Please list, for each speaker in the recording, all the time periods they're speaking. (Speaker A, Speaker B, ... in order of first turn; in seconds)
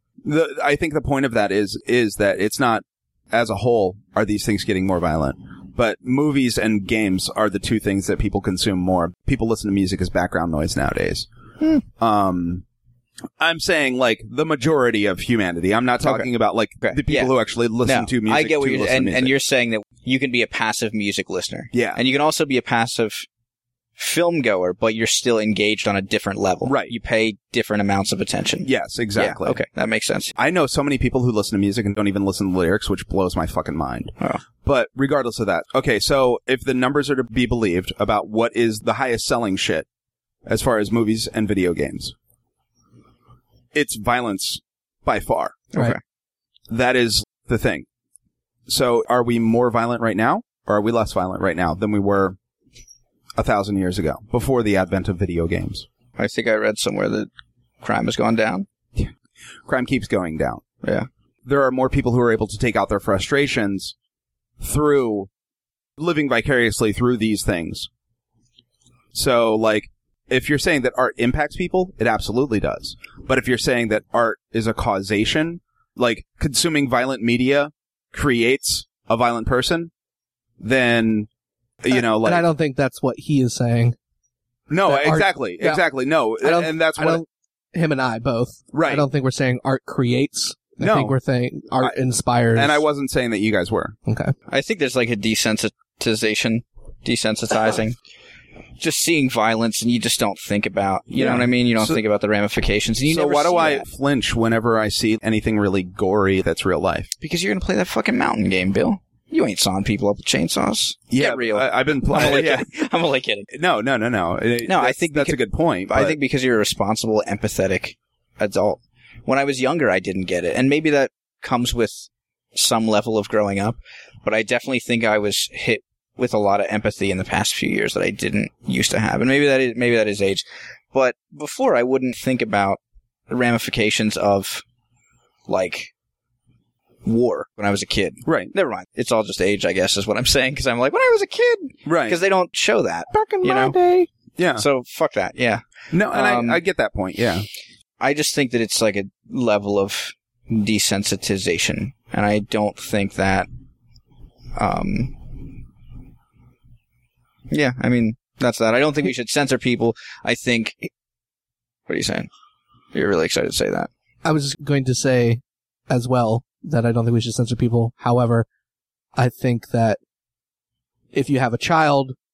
Speaker A: 0.2-11.3, 12.0-12.6, 13.4-19.3, 21.7-22.0, 26.7-26.9, 28.6-29.6, 30.4-39.9, 40.5-42.1, 43.7-45.7, 46.7-47.9, 48.7-52.4, 53.4-55.9, 59.7-60.6, 61.5-64.0, 64.6-65.3, 66.0-67.9, 69.1-79.9, 80.6-81.3, 81.8-82.5, 84.7-87.2, 88.7-89.1, 90.8-91.2, 92.5-94.0, 101.1-102.0, 103.1-107.1, 111.1-112.7, 113.5-116.2, 138.2-138.5, 141.9-142.2, 144.4-144.7, 145.9-147.4
Speaker B: 16.0-16.3, 16.8-17.3, 17.8-23.3, 24.0-30.3, 45.7-46.0, 56.2-57.3, 57.8-58.7, 60.8-61.1, 94.5-98.0, 98.8-103.8, 107.2-113.5, 114.6-134.6, 135.5-135.9, 137.1-143.8, 144.6-146.6, 148.0-153.5, 154.6-155.5, 157.5-160.9, 161.9-162.3, 162.9-163.9
Speaker C: 81.9-84.0, 84.9-85.8, 86.4-92.8, 94.1-94.3, 143.1-144.1, 164.2-168.5, 169.2-170.0, 171.1-172.2